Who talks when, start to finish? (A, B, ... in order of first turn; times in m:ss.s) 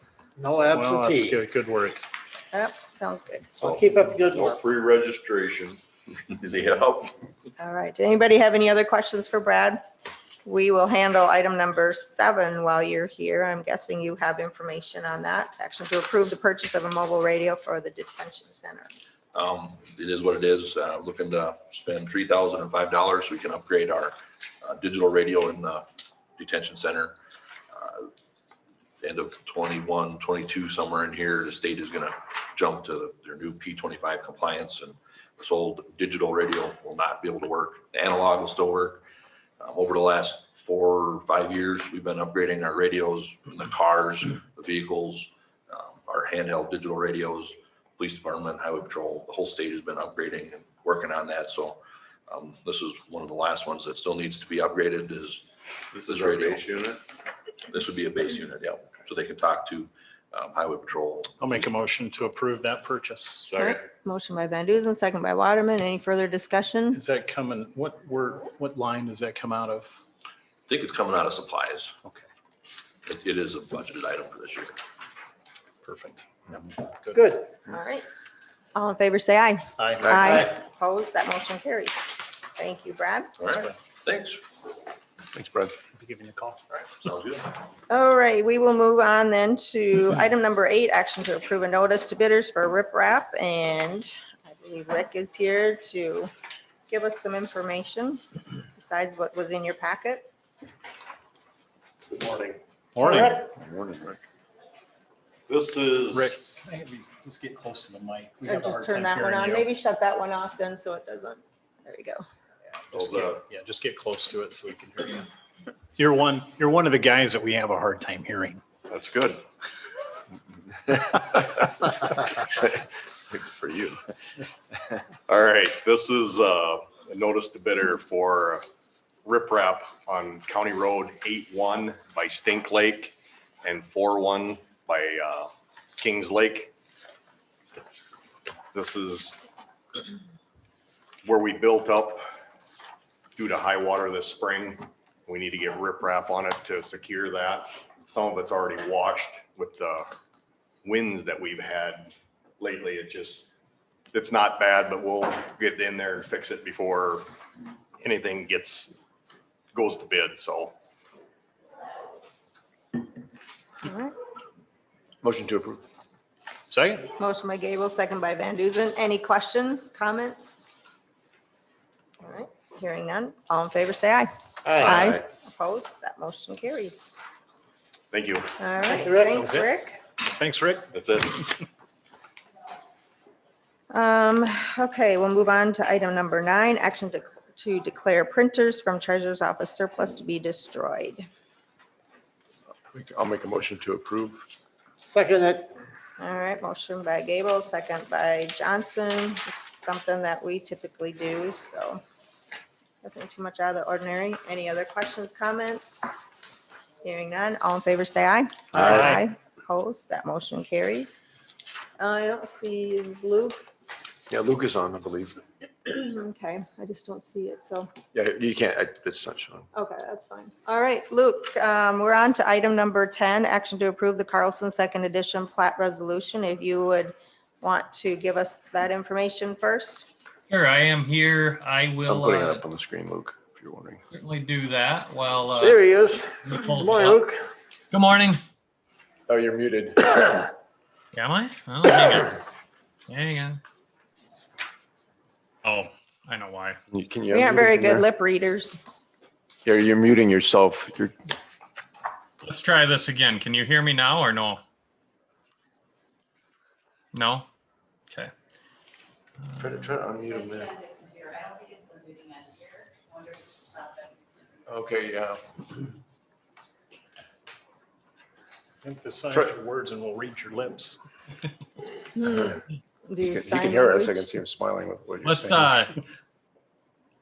0:00.4-0:01.4 A
0:00.7-0:02.0 B
0:02.5-0:03.8 C
0:03.6-0:04.6 A
0:06.3-0:07.1 D
0:07.6-0:09.8 C
0:10.4-0:18.9 C
0:19.3-0:25.9 D
0:26.4-0:27.2 D
0:27.8-0:28.1 D
0:29.0-0:39.0 D
0:39.6-0:55.4 D
0:56.0-0:57.0 D
0:57.7-1:01.7 D
1:01.4-1:03.5 B
1:03.6-1:07.0 C
1:06.9-1:09.9 B
1:10.7-1:11.9 D
1:13.1-1:14.8 D
1:15.8-1:17.4 B
1:17.1-1:17.5 A
1:17.7-1:18.1 C
1:18.8-1:23.3 C
1:19.8-1:20.2 B
1:20.2-1:20.5 A
1:23.4-1:24.4 D
1:25.3-1:25.8 E
1:26.0-1:26.6 B
1:26.7-1:27.5 D
1:27.9-1:36.3 C
1:36.9-1:38.2 C
1:38.8-1:40.3 C
1:42.1-1:42.6 F
1:43.0-1:43.4 B
1:43.0-1:43.3 A
1:43.6-1:44.2 E
1:45.5-1:46.4 F
1:46.1-1:49.7 B
1:48.5-1:52.2 C
1:52.9-1:55.3 B
1:52.9-1:53.4 F
1:56.0-1:58.6 B
1:58.9-1:59.4 F
2:01.0-2:04.0 E
2:05.3-2:08.7 F
2:09.2-2:16.7 F
2:18.7-2:19.4 F
2:21.2-2:22.2 F
2:23.4-2:30.1 F
2:30.8-2:33.5 F
2:34.1-2:37.3 F
2:38.0-2:39.0 F
2:39.7-2:40.8 F
2:43.8-2:44.1 C
2:45.2-2:45.8 E
2:46.7-2:47.1 B
2:47.2-2:50.6 C
2:52.2-2:57.1 C
2:54.6-2:55.2 A
2:54.8-2:55.2 F
2:58.1-2:58.5 F
2:58.6-3:00.0 C
2:59.0-3:00.9 B
3:00.9-3:01.5 F
3:03.9-3:11.3 C
3:12.9-3:14.5 E
3:15.1-3:15.8 A
3:16.2-3:22.0 C
3:23.0-3:26.1 C
3:27.0-3:31.2 C
3:28.8-3:29.2 B
3:32.0-3:33.6 C
3:34.3-3:35.4 E
3:35.8-3:37.9 C
3:38.1-3:39.7 E
3:39.7-3:50.1 C
3:50.5-3:52.6 G
3:52.1-3:54.0 E
3:54.1-3:55.9 G
3:55.6-3:57.4 A
3:56.4-3:57.3 G
3:57.9-3:58.4 G
3:59.3-4:00.5 E
4:01.1-4:02.4 G
4:03.1-4:03.6 G
4:05.6-4:06.8 G
4:06.9-4:08.0 E
4:07.3-4:08.8 C
4:09.6-4:11.2 E
4:12.4-4:14.6 G
4:17.1-4:17.5 G
4:19.6-4:20.8 E
4:24.7-4:25.4 E
4:28.8-4:31.0 B
4:32.2-4:32.5 C
4:32.3-4:32.6 E
4:33.1-4:34.2 C
4:33.2-4:35.8 E
4:35.2-4:35.9 G